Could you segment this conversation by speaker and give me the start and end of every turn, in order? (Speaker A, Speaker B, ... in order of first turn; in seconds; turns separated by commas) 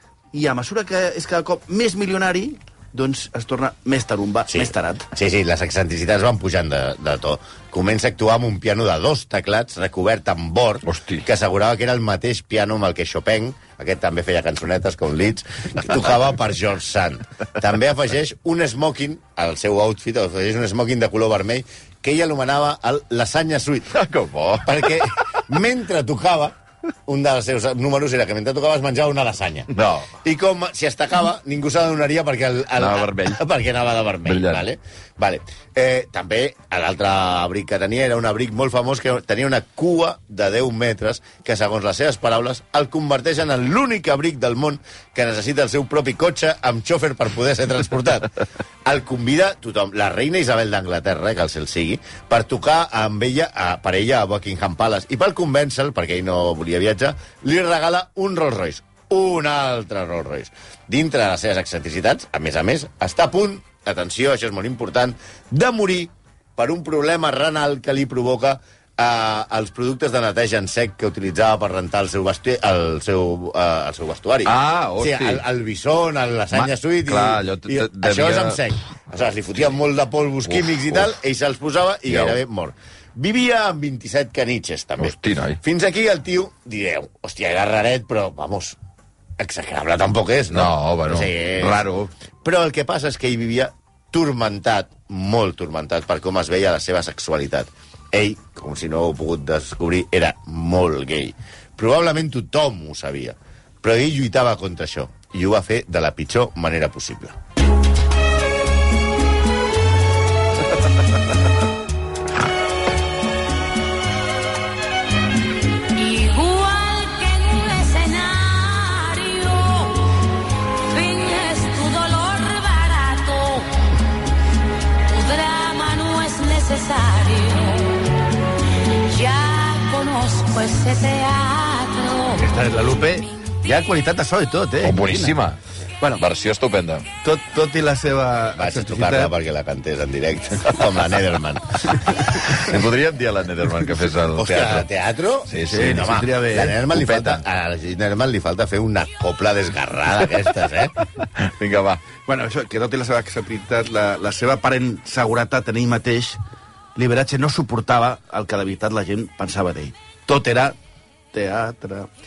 Speaker A: 0.3-5.1, Speaker B: 4.5-24.0, Speaker C: 10.9-11.2, Speaker C: 23.9-25.1, Speaker B: 24.6-48.3, Speaker C: 29.7-30.1, Speaker C: 32.8-33.4, Speaker C: 34.3-34.6, Speaker B: 48.9-88.8, Speaker C: 74.5-75.4, Speaker C: 76.5-78.6, Speaker C: 80.5-81.0, Speaker C: 82.1-82.4, Speaker C: 85.0-85.6, Speaker B: 89.4-91.8, Speaker C: 90.5-92.1, Speaker B: 92.4-107.4, Speaker D: 115.9-123.7, Speaker D: 125.0-128.3, Speaker D: 129.1-132.6, Speaker A: 132.4-135.4, Speaker C: 134.8-135.6, Speaker C: 136.2-137.1, Speaker A: 137.2-139.3, Speaker B: 138.6-142.0, Speaker C: 142.5-144.9, Speaker B: 144.4-150.9, Speaker C: 145.5-146.1, Speaker A: 145.7-147.0, Speaker C: 147.0-147.3, Speaker C: 151.4-152.0, Speaker A: 152.3-156.4, Speaker A: 157.0-160.8, Speaker A: 161.3-162.1